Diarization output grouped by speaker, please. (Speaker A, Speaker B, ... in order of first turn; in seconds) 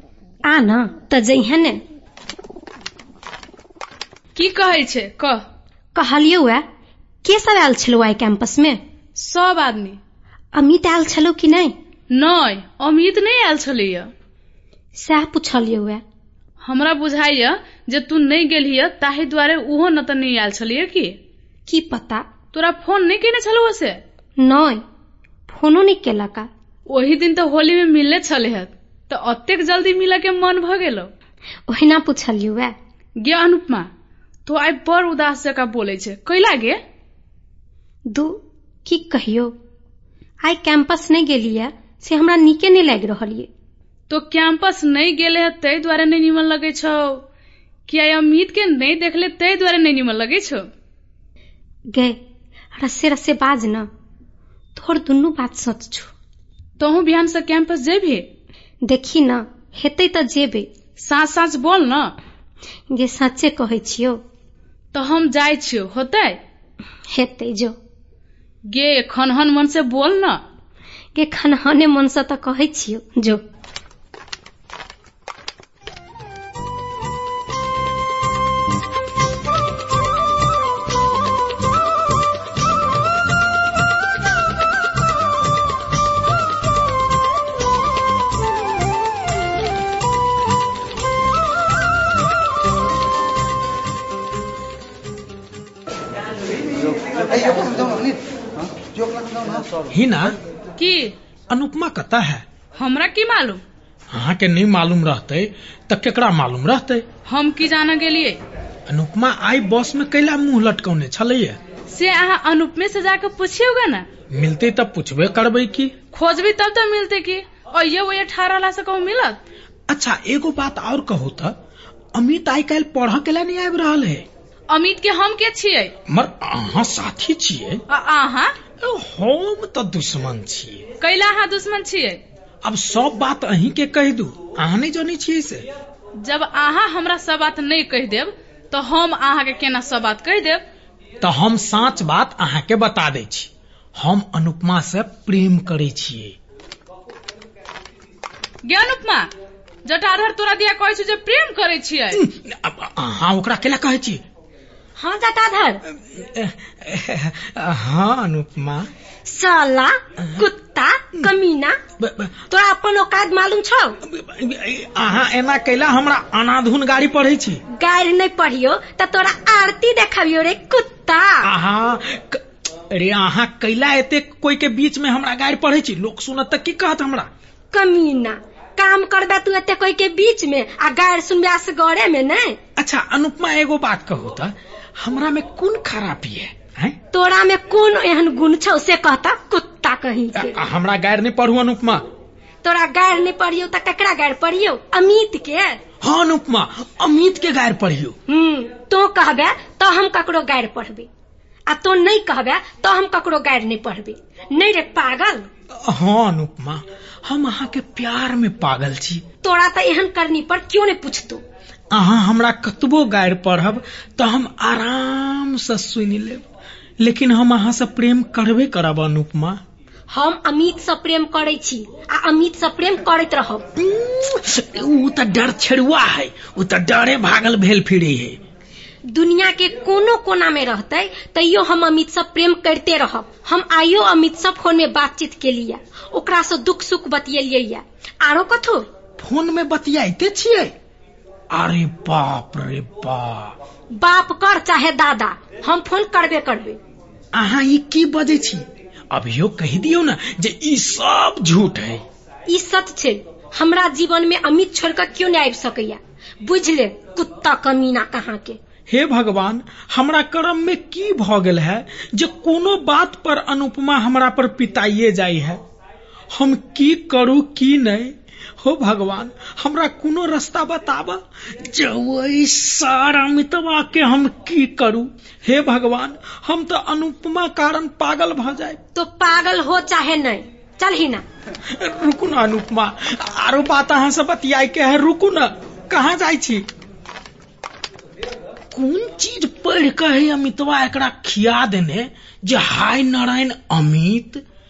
Speaker A: 0.5-1.8, 5.9-6.6, 7.2-8.8, 10.5-11.7, 15.0-16.0, 21.7-22.2, 24.4-24.8, 25.5-26.5, 31.7-32.7, 38.1-39.5, 40.4-43.5, 51.9-52.2, 52.8-53.9, 54.8-56.1, 58.9-60.7, 62.9-64.2, 67.1-67.7, 71.2-73.4, 155.0-155.8, 159.3-161.8, 162.5-163.9, 167.7-171.5, 177.7-182.6, 187.1-190.6, 192.6-195.8, 198.3-201.1, 201.7-205.5, 209.4-211.4, 220.1-223.6, 229.1-238.9, 243.9-246.8, 252.5-258.6, 278.9-281.2
Speaker B: 4.3-5.4, 9.2-10.0, 12.1-14.1, 16.6-21.1, 22.5-24.0, 26.9-31.1, 33.2-33.9, 34.5-36.8, 44.1-47.2, 47.9-50.6, 56.8-58.2, 61.0-62.1, 64.9-66.4, 68.7-70.4, 100.8-101.1, 102.8-103.6, 107.2-108.4, 111.9-114.0, 116.1-119.4, 124.7-125.9, 127.9-128.5, 131.0-132.2, 136.2-140.6, 148.7-149.3, 149.8-152.2
Speaker C: 99.9-100.3, 101.5-102.5, 104.1-107.0, 108.9-111.6, 114.3-115.9, 119.9-121.5, 122.1-124.2, 126.1-127.8, 128.8-130.9, 132.6-135.6, 141.2-146.3, 152.1-154.2, 155.9-158.9, 162.0-162.4, 164.0-167.6, 171.4-177.3, 182.8-187.0, 190.3-192.0, 196.0-198.2, 205.7-209.2, 211.9-216.4, 217.0-219.6, 223.8-228.4, 239.2-240.7, 241.5-243.5, 247.3-252.0, 258.9-265.6, 266.3-278.8, 281.6-286.6, 288.7-294.4